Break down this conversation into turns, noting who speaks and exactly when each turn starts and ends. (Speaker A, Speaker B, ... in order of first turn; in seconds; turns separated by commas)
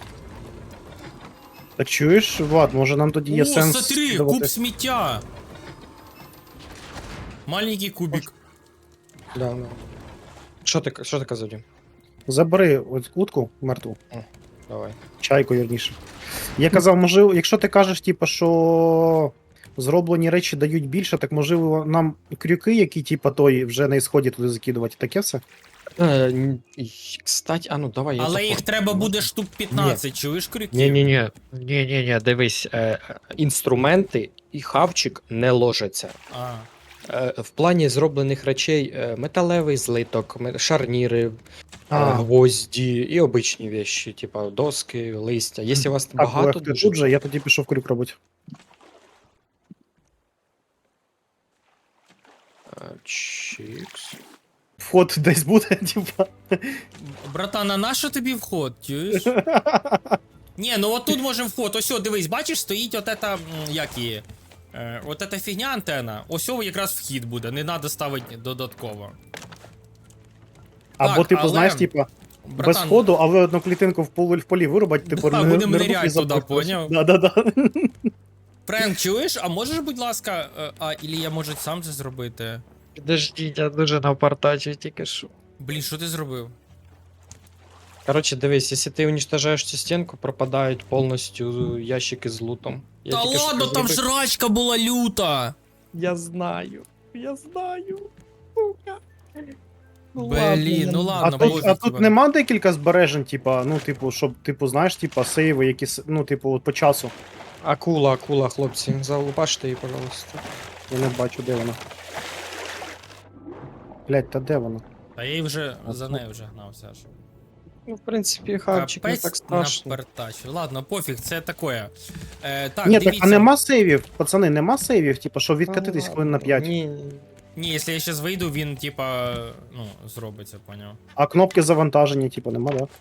Speaker A: 1.8-4.5, Speaker B: 3.3-5.2, Speaker B: 7.5-8.3, Speaker C: 9.3-9.8, Speaker C: 10.6-11.6, Speaker A: 12.3-14.0, Speaker C: 14.1-15.0, Speaker A: 15.2-16.0, Speaker A: 16.6-25.4, Speaker C: 26.0-30.0, Speaker B: 28.2-31.1, Speaker C: 30.7-36.2, Speaker B: 36.3-36.7, Speaker C: 37.0-41.4, Speaker A: 41.9-42.2, Speaker C: 41.9-47.1, Speaker A: 46.2-48.2, Speaker C: 52.7-54.2, Speaker A: 54.8-56.8, Speaker B: 57.0-59.3, Speaker A: 59.1-60.2, Speaker B: 60.6-69.2, Speaker A: 71.0-78.1, Speaker B: 71.0-71.9, Speaker B: 72.4-73.1, Speaker B: 75.0-76.9, Speaker B: 78.7-82.6, Speaker C: 83.0-85.3, Speaker B: 85.6-86.5, Speaker C: 88.0-94.0, Speaker B: 93.1-95.5, Speaker C: 95.9-99.5, Speaker C: 100.1-101.7, Speaker B: 100.2-102.1, Speaker A: 101.2-107.1, Speaker C: 107.6-110.4, Speaker A: 110.9-111.8, Speaker A: 114.1-114.8, Speaker B: 115.2-117.1, Speaker A: 115.9-116.2, Speaker C: 117.9-120.0, Speaker B: 118.7-123.5, Speaker A: 122.8-126.7, Speaker C: 125.7-127.2, Speaker B: 127.5-131.0, Speaker A: 131.2-132.9